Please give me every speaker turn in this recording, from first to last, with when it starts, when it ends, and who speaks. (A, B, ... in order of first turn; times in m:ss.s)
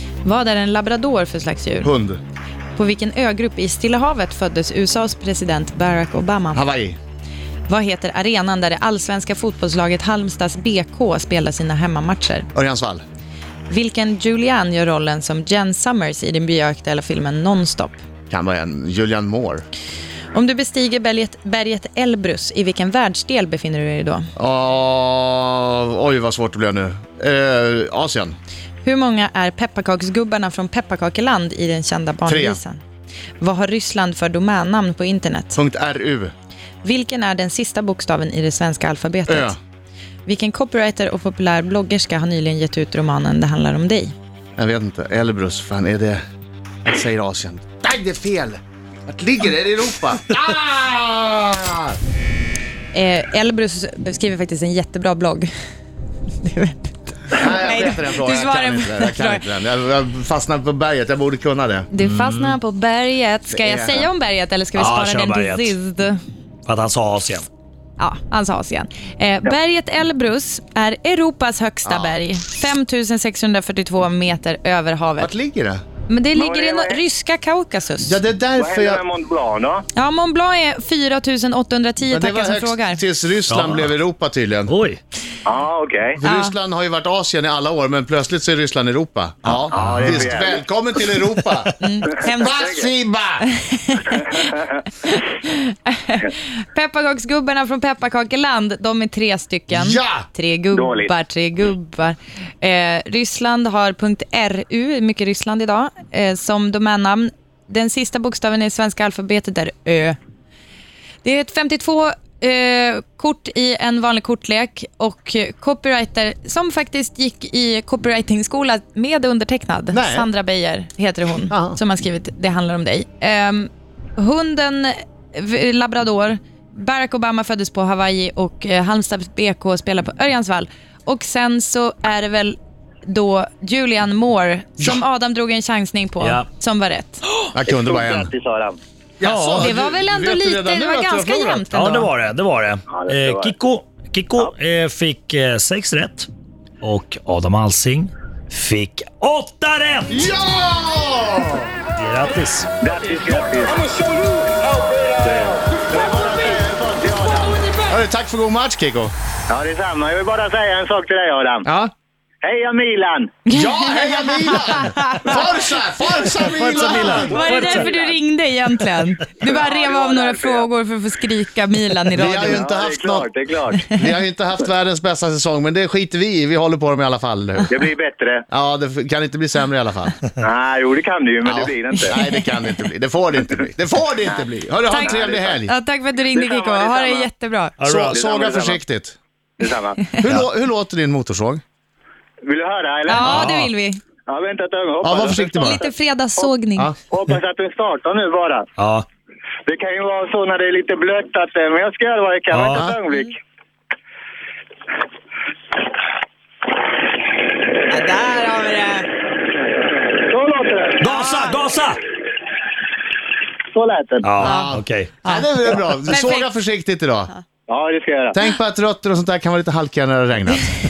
0:00.2-0:01.9 A
0:01.8-0:02.2 B
0:02.8-0:06.6 A
0:06.5-0:07.0 B
0:07.7-0:12.5 A
0:12.6-0:13.0 B
0:13.7-0:18.0 A
0:18.3-0:19.6 B
0:20.3-0:24.3 A
0:24.4-0:28.4 B
0:28.8-0:32.8 A
0:32.3-0:32.6 B
0:33.4-0:35.6 A
0:35.5-0:36.3 B
0:36.8-0:39.5 A
0:39.3-0:39.6 B
0:40.3-0:44.1 A
0:44.6-0:46.2 B
0:46.8-0:52.0 B
0:52.9-0:55.5 A
0:56.4-0:59.4 A
0:57.3-1:01.9 B
1:01.9-1:06.2 A
1:02.0-1:02.6 C
1:03.5-1:04.1 B
1:04.8-1:05.8 C
1:06.7-1:07.5 C
1:08.0-1:15.3 A
1:11.8-1:12.2 B
1:15.2-1:15.8 B
1:16.1-1:18.2 A
1:16.3-1:17.0 D
1:18.0-1:19.0 B
1:18.6-1:19.9 D
1:19.9-1:23.0 A
1:22.1-1:24.7 B
1:23.5-1:24.0 C
1:24.7-1:25.0 C
1:25.5-1:26.2 D
1:26.2-1:33.5 B
1:26.2-1:26.5 A
1:29.5-1:30.3 C
1:29.7-1:30.6 D
1:31.8-1:32.8 A
1:32.6-1:32.8 D
1:33.4-1:50.2 A
1:39.7-1:40.3 B
1:40.7-1:41.1 D
1:51.2-2:17.2 A
1:59.9-2:00.3 B
2:01.5-2:01.8 B
2:17.5-2:18.3 B
2:17.7-2:18.8 D
2:19.2-2:21.8 B
2:19.2-2:19.7 C
2:19.6-2:22.1 A
2:21.7-2:26.3 C
2:22.9-2:23.5 D
2:26.8-2:30.3 C
2:30.1-2:31.7 B
2:32.0-2:32.7 C
2:32.8-2:33.9 D
2:35.2-2:37.7 D
2:37.9-2:39.1 B
2:39.5-2:41.7 D
2:41.6-2:41.9 B
2:42.4-2:43.4 D
2:43.5-2:45.5 A
2:43.5-2:47.4 B
2:46.4-2:47.9 C
2:47.2-2:52.6 A
2:47.3-2:48.2 D
2:49.4-2:50.7 D
2:52.1-2:53.3 B
2:52.4-2:53.9 D
2:53.9-2:57.9 B
2:57.7-2:58.4 D
2:58.5-3:00.2 B
3:00.4-3:02.2 D
3:01.4-3:05.7 B
3:04.9-3:07.8 A
3:05.0-3:05.6 D
3:06.3-3:07.3 D
3:07.8-3:08.2 C
3:07.9-3:09.2 B
3:08.1-3:08.8 D
3:09.6-3:10.0 D
3:10.2-3:11.6 B
3:12.4-3:13.5 D
3:13.1-3:14.0 A
3:13.2-3:13.7 C
3:14.3-3:15.9 D
3:15.0-3:15.9 B
3:15.6-3:16.9 A
3:17.1-3:18.7 D
3:18.8-3:19.0 C
3:19.7-3:23.4 D
3:22.5-3:22.9 C
3:27.9-3:29.1 A
3:30.3-3:31.1 D
3:31.0-3:32.0 C
3:31.1-3:31.6 A
3:33.7-3:34.3 D
3:34.2-3:35.2 C
3:34.4-3:37.3 B
3:34.4-3:36.5 A
3:37.7-3:38.4 D
3:38.3-3:40.7 B